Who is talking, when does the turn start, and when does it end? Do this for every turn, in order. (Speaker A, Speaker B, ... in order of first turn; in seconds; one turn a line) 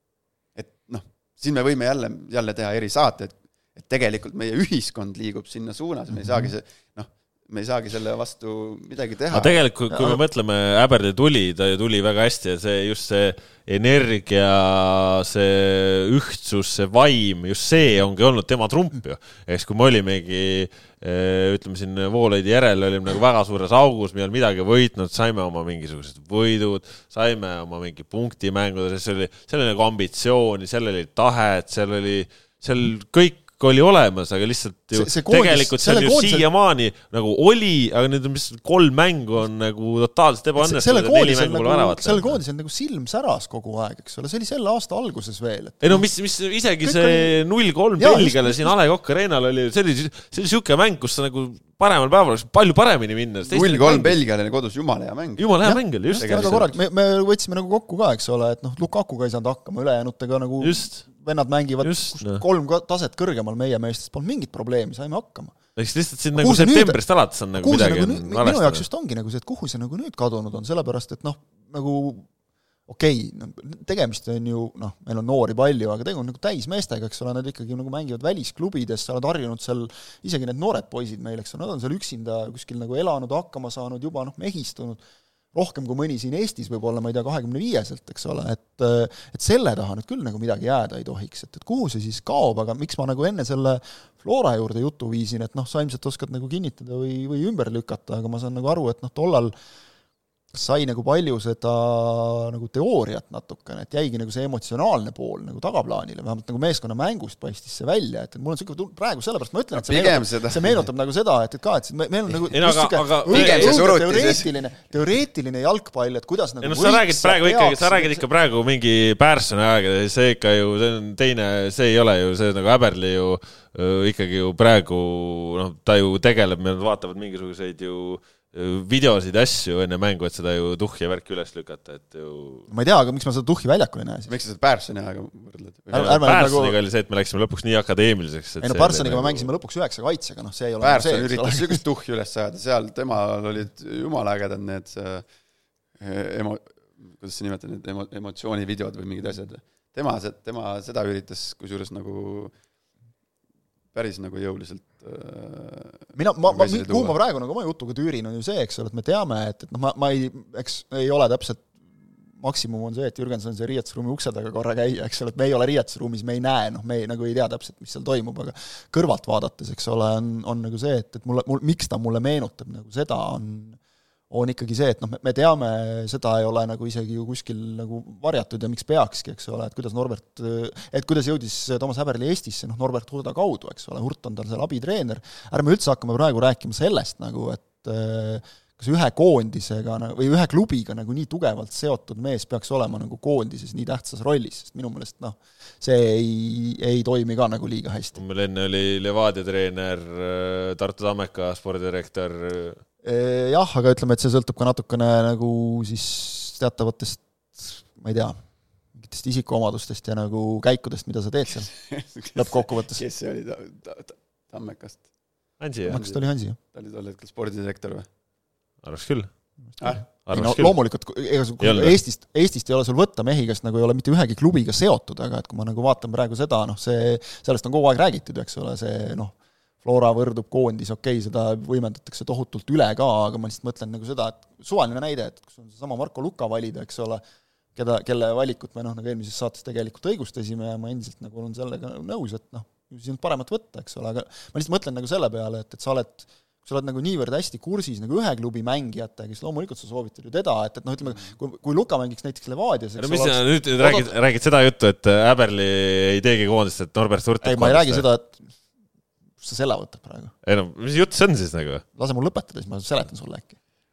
Speaker A: 0.6-9.6
Speaker B: 6.1-6.5
Speaker C: 9.3-42.4
Speaker B: 9.9-10.2
Speaker B: 34.9-36.5
Speaker B: 40.6-46.1
Speaker C: 45.8-54.2
Speaker B: 46.8-47.4
Speaker B: 48.0-48.7
Speaker A: 53.5-55.4
Speaker C: 55.4-56.7
Speaker B: 55.6-65.6
Speaker A: 56.2-56.7
Speaker C: 60.6-61.0
Speaker C: 61.8-62.4
Speaker C: 65.8-68.8
Speaker B: 66.3-67.0
Speaker B: 67.6-72.3
Speaker B: 72.9-85.0
Speaker B: 85.5-99.5
Speaker B: 100.5-118.2
Speaker A: 109.7-110.8
Speaker C: 112.5-113.8
Speaker A: 113.3-114.5
Speaker C: 116.6-132.7
Speaker B: 132.7-134.3
Speaker A: 134.3-136.3
Speaker B: 135.9-136.8
Speaker C: 135.9-139.5
Speaker B: 138.6-141.8
Speaker A: 140.8-145.3
Speaker A: 146.0-152.5
Speaker A: 153.9-157.2
Speaker B: 156.2-161.7
Speaker B: 162.3-198.2
Speaker C: 198.2-202.8
Speaker B: 203.0-211.7
Speaker A: 211.7-215.1
Speaker B: 212.3-213.0
Speaker C: 215.6-216.0
Speaker A: 215.8-218.1
Speaker B: 215.9-216.6
Speaker C: 218.8-219.3
Speaker B: 219.8-237.2
Speaker C: 220.2-220.8
Speaker C: 221.6-222.0
Speaker B: 237.8-254.1
Speaker C: 253.0-258.0
Speaker B: 257.4-258.5
Speaker B: 259.4-260.3
Speaker C: 260.4-261.8
Speaker B: 262.0-263.6